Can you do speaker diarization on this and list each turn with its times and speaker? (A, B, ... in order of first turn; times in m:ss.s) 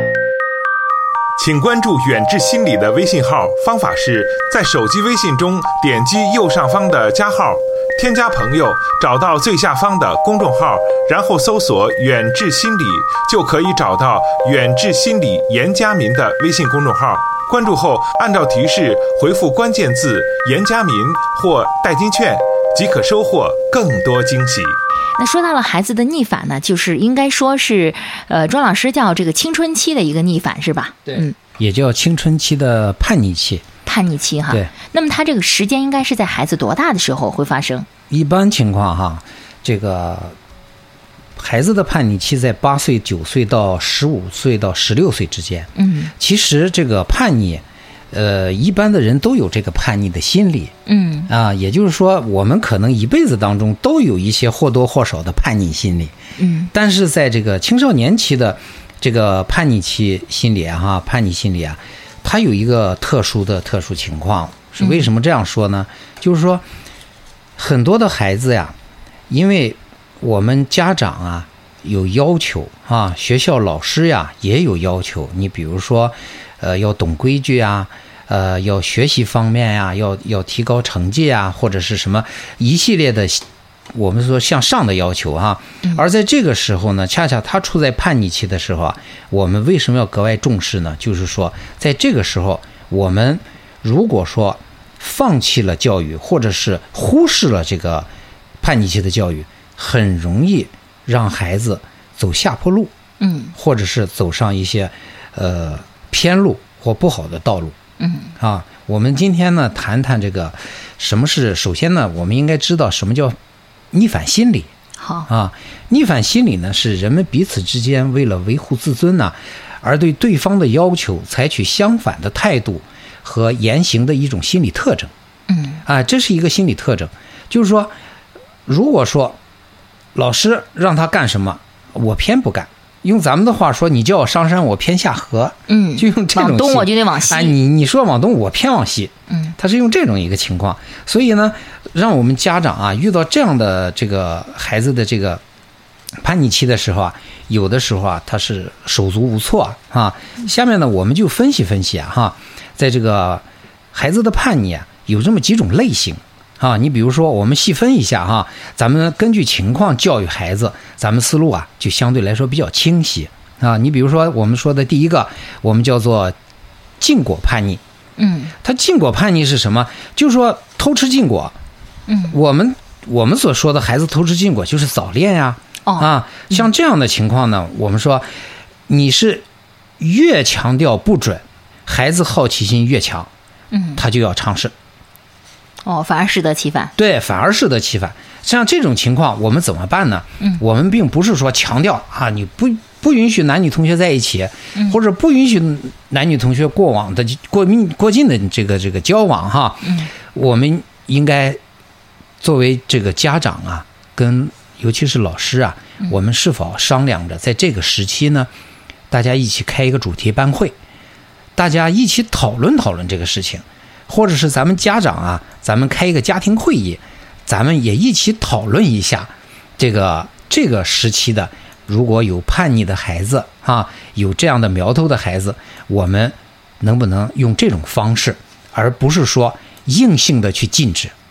0:01.4-0:24.8 A
0:25.2-0:31.3 B
0:31.1-0:33.6 C
0:33.8-0:37.9 B
0:38.1-0:40.4 C
0:41.4-0:50.7 C
0:45.8-0:46.1 B
0:50.8-0:51.3 B
0:51.3-0:56.1 C
0:56.4-0:56.7 B
0:56.7-1:06.6 C
1:04.8-1:05.1 B
1:07.6-1:08.8 C
1:09.3-1:38.1 C
1:38.6-1:42.9 C
1:43.2-1:43.5 B
1:43.6-1:47.8 C
1:48.0-1:48.3 B
1:48.4-1:53.4 C
1:53.9-1:54.7 C
1:55.0-1:55.3 B
1:55.3-2:05.1 C
2:05.5-2:05.8 B
2:05.9-2:07.9 C
2:08.7-2:09.4 C
2:10.2-2:25.4 C
2:15.7-2:17.6 B
2:26.2-2:46.3 C
2:47.0-2:47.8 C
2:48.2-2:48.5 B
2:48.6-2:51.6 C
2:52.1-2:52.4 B
2:52.3-2:58.2 C
2:55.9-2:56.7 B
2:58.9-2:59.4 C
3:00.0-3:03.3 C
3:03.7-3:04.0 B
3:04.0-3:04.7 C
3:05.9-3:06.9 B
3:07.0-3:21.6 C
3:19.8-3:20.1 B
3:22.4-3:28.5 C
3:29.1-3:30.8 C
3:31.6-3:51.1 C